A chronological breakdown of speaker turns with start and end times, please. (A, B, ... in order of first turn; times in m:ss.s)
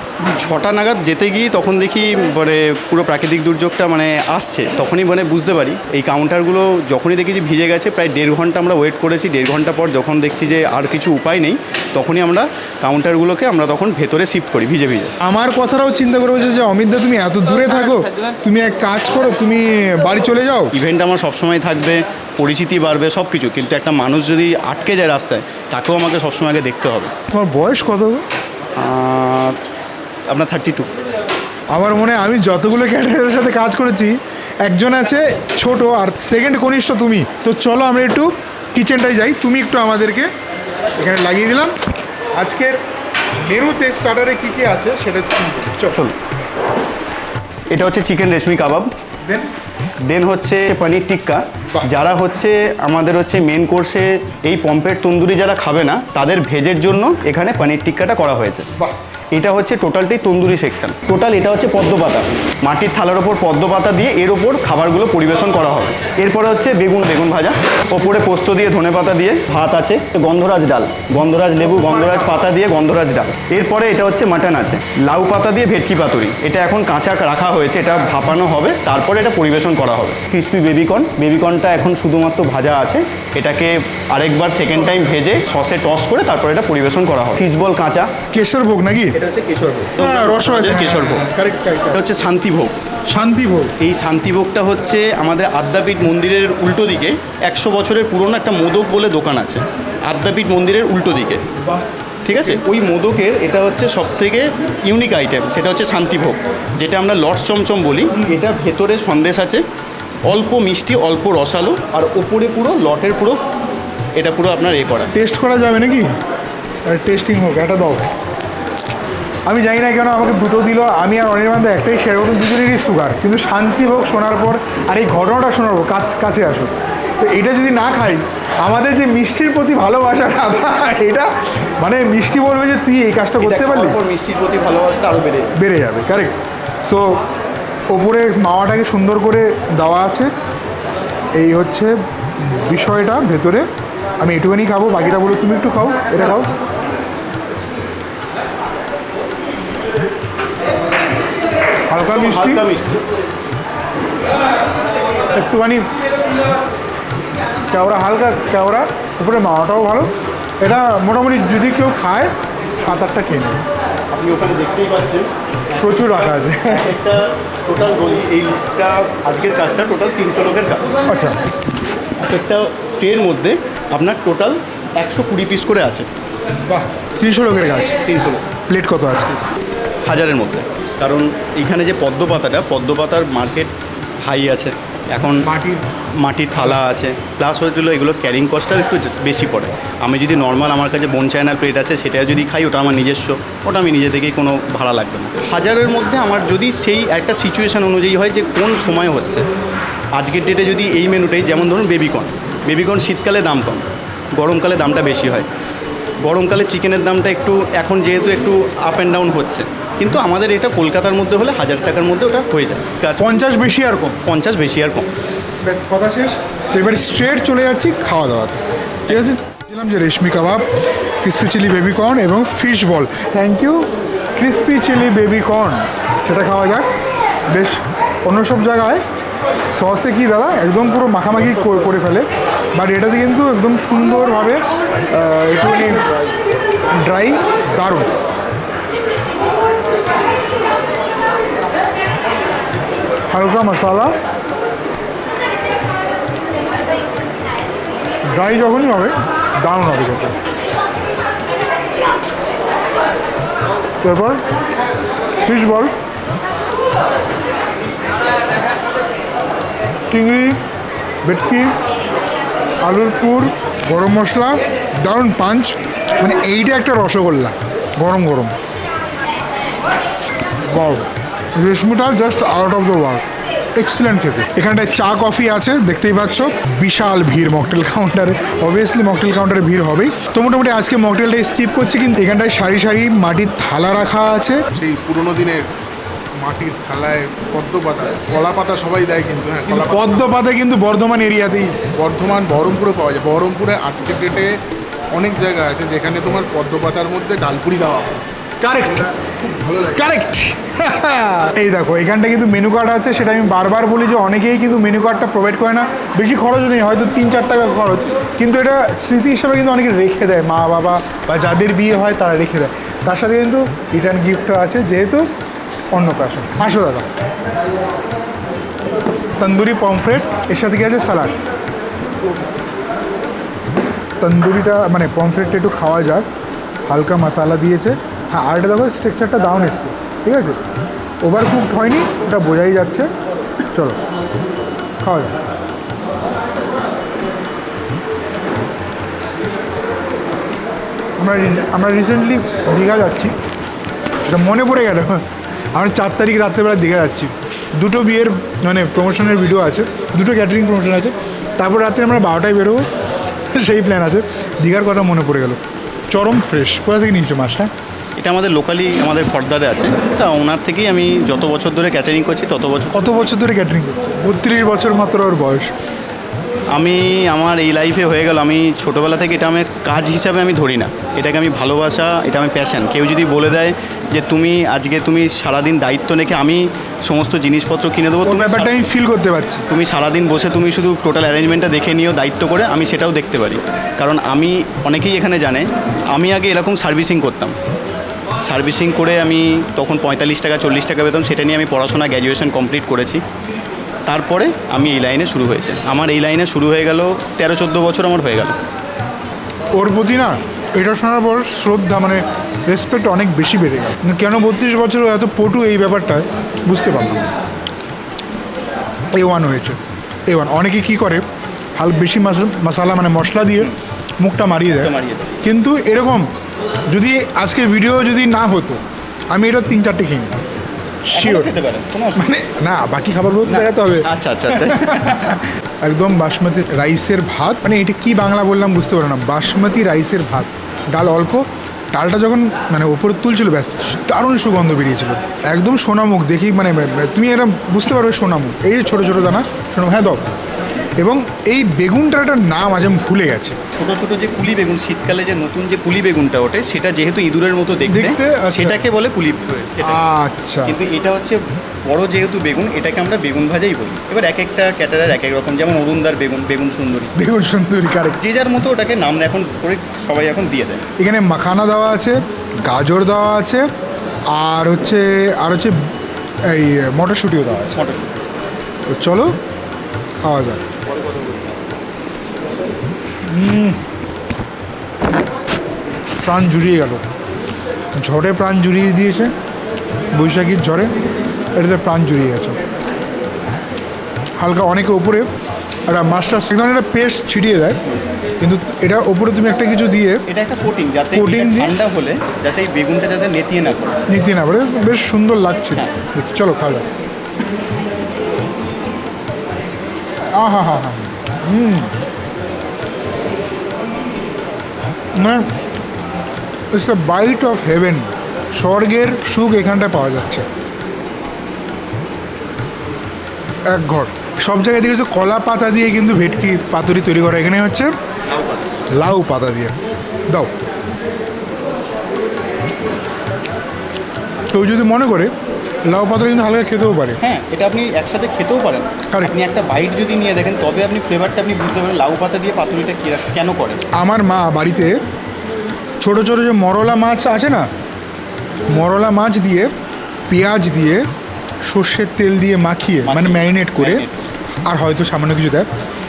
0:00.2-0:15.1 A
0:15.2-0:20.7 B
0:20.7-0:27.1 A
0:27.3-0:28.2 B
0:28.8-0:29.5 A
0:30.3-0:30.9 A
0:31.7-0:40.3 B
0:41.0-0:41.7 B
0:42.4-0:42.7 B
0:43.4-0:46.0 B
0:47.7-0:48.9 A
0:49.2-0:49.5 B
0:50.0-0:58.7 A
0:59.3-1:28.1 A
1:28.3-1:29.2 B
1:29.1-1:31.2 A
1:29.9-1:32.0 B
1:31.9-1:32.7 A
1:33.1-1:33.7 B
1:33.8-1:41.4 A
1:42.2-1:49.6 A
1:50.3-1:53.4 A
1:54.2-1:55.1 A
1:55.1-1:56.1 B
1:56.9-1:58.1 B
1:59.4-2:14.0 B
2:13.4-2:15.5 A
2:15.6-2:17.2 B
2:17.9-2:20.3 B
2:21.4-2:23.6 B
2:24.2-2:26.5 B
2:31.9-2:32.6 B
2:32.0-2:33.0 A
2:35.3-2:35.9 B
2:37.7-2:40.1 B
2:40.6-2:43.6 B
2:44.1-2:50.9 A
2:45.8-2:46.9 B
2:51.1-2:51.4 B
2:52.2-2:56.1 A
2:56.7-2:58.0 B
2:58.0-2:58.4 A
2:58.7-2:59.4 B
3:00.0-3:03.7 A
3:04.2-3:05.5 A
3:05.4-3:05.8 B
3:06.2-3:19.4 A
3:20.2-3:25.5 A
3:26.2-3:33.5 A
3:33.2-3:34.2 B
3:34.2-3:35.1 A
3:35.6-3:40.7 B
3:41.2-3:46.9 B
3:47.5-3:49.0 B
3:49.7-3:56.0 B
3:57.0-3:58.1 B
4:03.3-4:04.1 B
4:08.3-4:10.3 B
4:14.0-4:14.4 B
4:15.4-4:15.9 B
4:20.1-4:20.6 B
4:21.2-4:21.7 B
4:22.8-4:28.5 B
4:30.7-4:33.2 B
4:33.8-4:44.6 B
4:44.7-4:45.7 C
4:46.4-4:50.3 C
4:49.6-4:51.7 B
4:51.9-4:54.5 C
4:55.1-4:58.1 C
4:58.6-4:59.1 B
4:59.6-5:00.0 C
4:59.9-5:15.3 B
5:15.9-5:17.1 B
5:19.4-5:21.3 B
5:24.2-5:26.2 B
5:26.9-5:30.6 B
5:31.2-5:33.1 B
5:35.0-5:35.3 B
5:41.2-5:43.3 B
5:44.3-5:45.2 B
5:45.7-5:52.8 B
5:53.5-5:55.6 B
5:56.1-5:57.7 B
5:58.2-6:03.2 A
6:02.9-6:05.7 B
6:06.7-6:18.9 A
6:18.2-6:19.6 B
6:19.7-6:27.5 A
6:28.4-6:33.2 A
6:34.0-6:38.6 A
6:39.7-6:47.3 B
6:49.1-6:51.2 B
6:51.8-6:56.3 B
6:54.7-6:55.4 A
6:56.9-7:00.4 B
7:01.0-7:01.5 B
7:01.1-7:02.4 A
7:02.2-7:20.3 B
7:03.4-7:05.4 A
7:21.0-7:23.6 B
7:23.7-7:30.0 A
7:27.9-7:28.8 B
7:29.8-7:30.8 B
7:30.7-7:37.1 A
7:37.2-7:38.2 B
7:38.2-7:40.8 A
7:41.0-7:43.6 B
7:44.3-7:45.7 B
7:46.5-7:47.8 B
7:47.7-7:48.2 A
7:48.9-7:49.3 B
7:50.2-7:50.6 B
7:53.3-7:53.8 B
7:56.2-7:57.0 B
7:58.0-7:59.3 B
8:00.1-8:00.9 B
8:01.6-8:02.6 B
8:04.4-8:05.3 B
8:05.9-8:07.8 B
8:08.4-8:10.2 B
8:10.3-8:14.0 A
8:11.1-8:11.8 B
8:14.1-8:16.8 B
8:20.4-8:21.9 B
8:25.2-8:25.5 B
8:26.7-8:30.4 B
8:33.7-8:37.9 B
8:38.3-8:38.7 A
8:38.9-8:39.8 B
8:44.5-8:45.3 B
8:45.9-8:47.2 B
8:47.2-8:53.8 A
8:49.1-8:49.4 B
8:53.9-8:54.9 B
8:56.0-8:57.7 B
8:58.7-8:59.7 B
9:00.3-9:01.0 B
9:01.6-9:04.0 B
9:03.0-9:04.2 A
9:04.6-9:05.7 B